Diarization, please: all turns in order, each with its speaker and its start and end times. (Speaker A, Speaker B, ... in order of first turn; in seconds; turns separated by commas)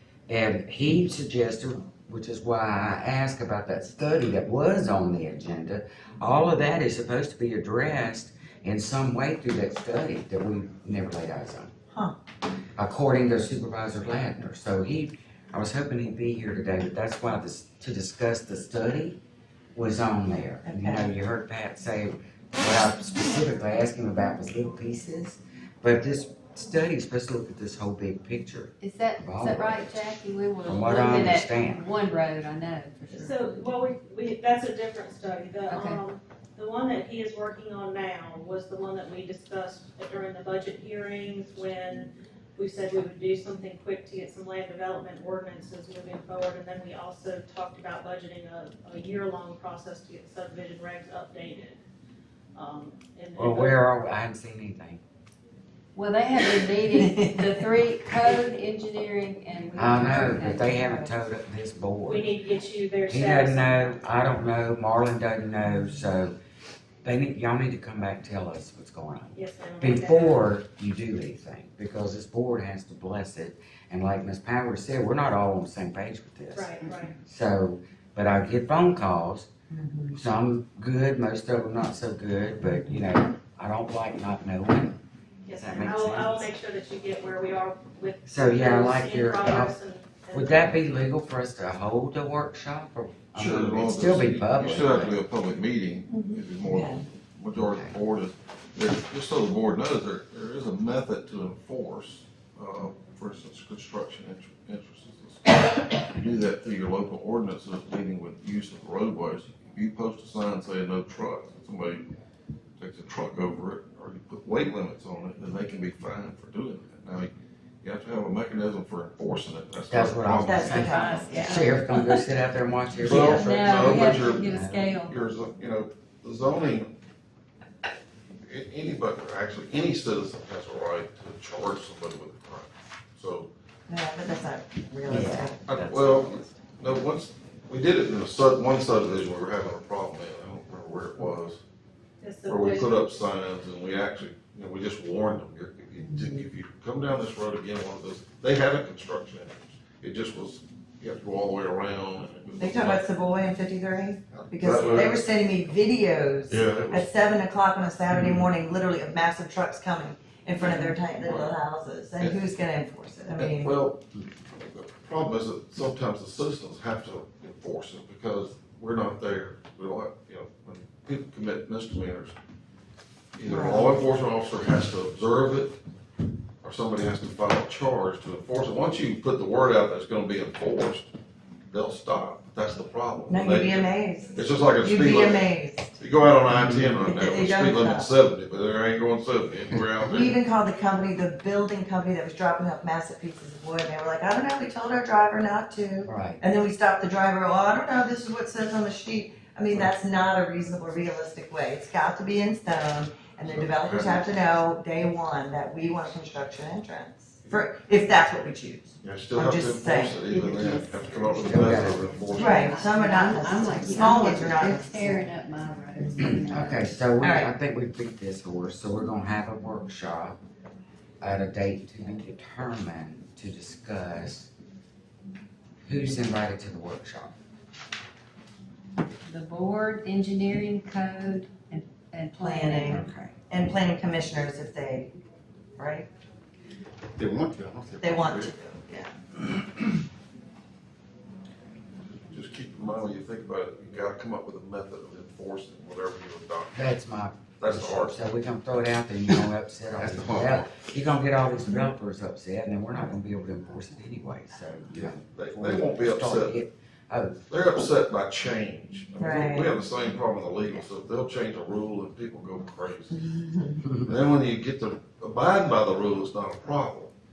Speaker A: 0.3-11.7, Speaker A: 12.8-19.2, Speaker A: 19.7-29.9, Speaker B: 20.6-21.1, Speaker C: 28.8-33.4, Speaker A: 30.6-31.8, Speaker D: 33.1-51.8, Speaker C: 35.7-36.0, Speaker D: 52.5-53.8, Speaker A: 53.4-55.0, Speaker C: 55.9-61.0, Speaker B: 56.9-57.5, Speaker A: 59.8-62.3, Speaker B: 60.6-61.0, Speaker D: 62.0-63.8, Speaker A: 63.1-66.3, Speaker A: 67.0-79.5, Speaker D: 69.3-70.5, Speaker D: 76.5-77.2, Speaker B: 79.7-80.2, Speaker A: 80.1-85.0, Speaker B: 82.7-83.0, Speaker D: 85.4-90.7, Speaker A: 85.5-86.5, Speaker A: 88.3-89.7, Speaker A: 90.3-95.2, Speaker E: 93.3-112.0, Speaker B: 96.1-97.0, Speaker A: 97.5-97.9, Speaker E: 112.8-117.3, Speaker E: 117.8-121.0, Speaker A: 119.9-124.9, Speaker B: 120.4-121.5, Speaker C: 120.6-122.3, Speaker E: 123.0-126.9, Speaker C: 123.1-125.2, Speaker E: 128.4-133.5, Speaker B: 133.9-135.6, Speaker A: 135.1-136.6, Speaker E: 135.7-141.6, Speaker D: 142.2-143.1, Speaker E: 142.4-153.0, Speaker B: 146.0-146.4, Speaker B: 152.6-163.7, Speaker E: 154.3-155.2, Speaker E: 156.5-157.1, Speaker A: 158.1-158.4, Speaker E: 161.2-161.6, Speaker E: 163.3-164.0, Speaker E: 164.5-172.3, Speaker E: 173.3-175.8, Speaker B: 173.4-174.0, Speaker E: 176.6-181.1, Speaker E: 181.7-185.5, Speaker B: 183.3-186.0, Speaker E: 186.0-190.3, Speaker A: 186.5-186.9, Speaker B: 187.0-188.1, Speaker B: 190.1-210.9, Speaker A: 196.0-196.4, Speaker E: 203.4-204.2, Speaker E: 209.0-212.7, Speaker C: 210.4-216.9, Speaker A: 211.4-212.1, Speaker B: 212.3-215.2, Speaker A: 216.2-220.4, Speaker B: 217.2-217.5, Speaker A: 221.2-224.5, Speaker A: 225.8-227.3, Speaker C: 229.2-233.0, Speaker B: 232.4-235.1, Speaker A: 232.9-233.3, Speaker B: 235.8-236.1, Speaker E: 237.2-238.5, Speaker B: 238.0-239.1, Speaker E: 242.3-246.9, Speaker A: 246.7-257.5, Speaker E: 247.6-248.2, Speaker E: 250.2-250.4, Speaker E: 255.3-256.6, Speaker E: 257.5-263.3, Speaker B: 259.2-259.7, Speaker B: 263.1-263.9, Speaker E: 264.0-267.1